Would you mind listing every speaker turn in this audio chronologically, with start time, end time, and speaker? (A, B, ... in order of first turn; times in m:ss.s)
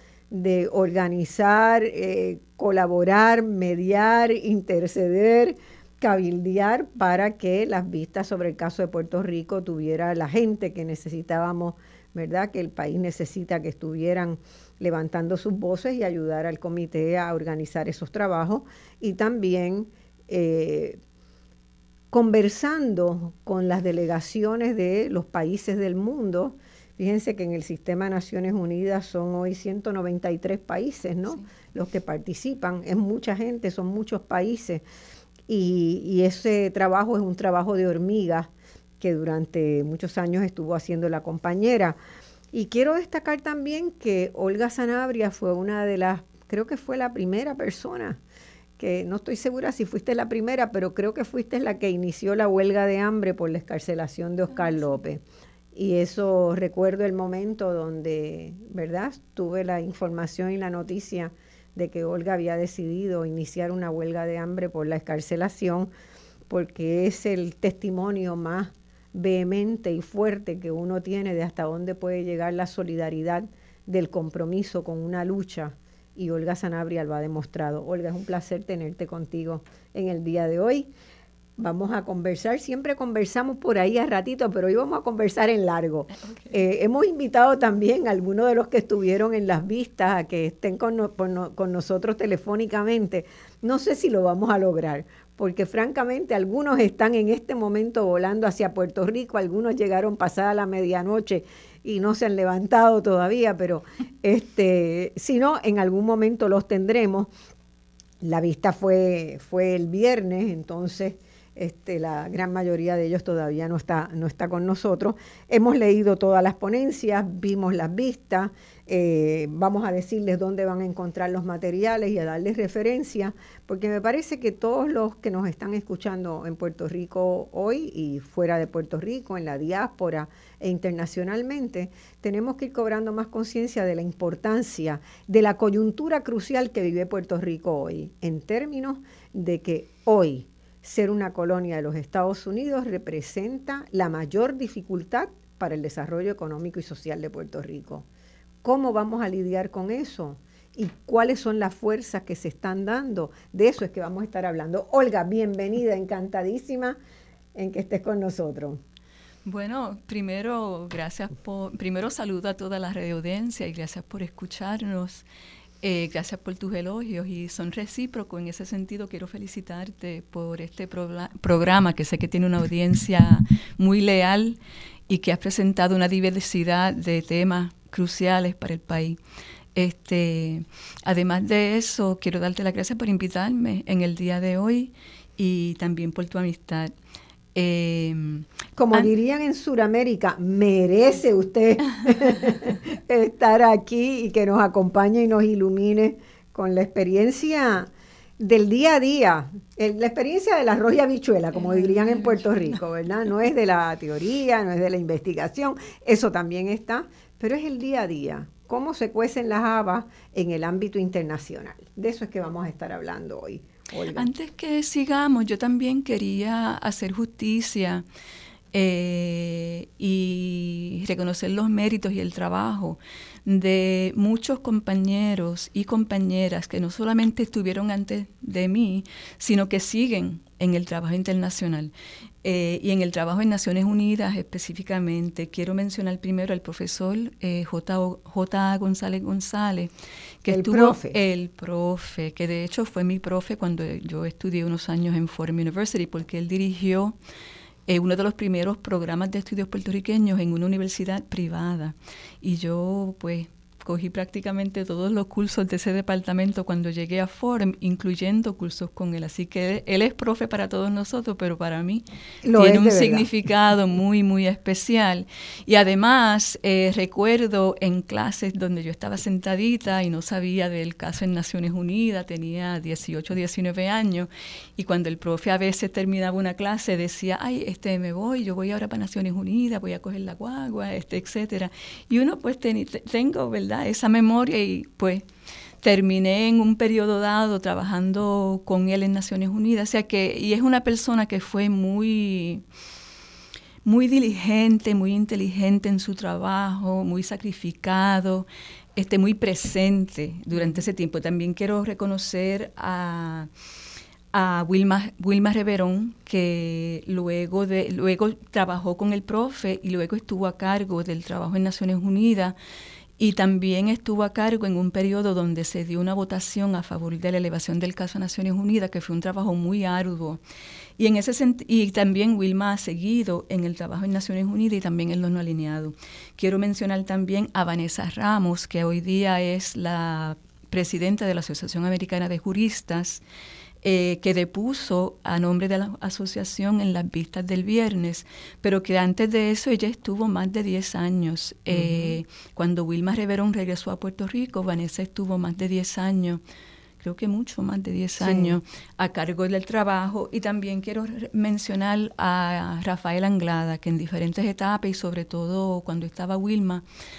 0:00.3-0:21.0 A
0:22.1-0:34.8 A
0:35.5-0:42.0 A
0:42.5-0:48.2 A
0:48.8-0:55.2 A
0:55.7-1:05.9 A
1:06.5-1:20.9 A
1:21.6-1:47.3 A
1:26.2-1:26.5 B
1:48.2-2:28.1 A
2:28.6-2:37.0 A
2:37.5-2:38.8 A
2:39.4-2:45.2 B
2:45.8-2:54.6 B
2:55.1-2:59.2 B
2:59.8-3:06.9 B
3:07.5-3:09.1 B
3:08.8-3:34.3 A
3:21.6-3:22.8 B
3:34.1-3:38.0 B
3:38.7-3:51.9 B
3:52.4-3:59.9 B
4:00.4-4:07.2 B
4:00.5-4:01.2 A
4:07.9-4:22.0 B
4:22.4-4:23.3 A
4:22.5-4:45.2 B
4:45.8-4:52.6 B
4:53.8-5:03.5 B
5:00.6-5:00.8 A
5:04.3-5:12.6 B
5:13.2-5:20.4 B
5:21.0-5:33.2 B
5:33.8-5:46.4 B
5:41.7-5:42.2 A
5:47.0-5:56.8 B
5:48.2-5:48.6 A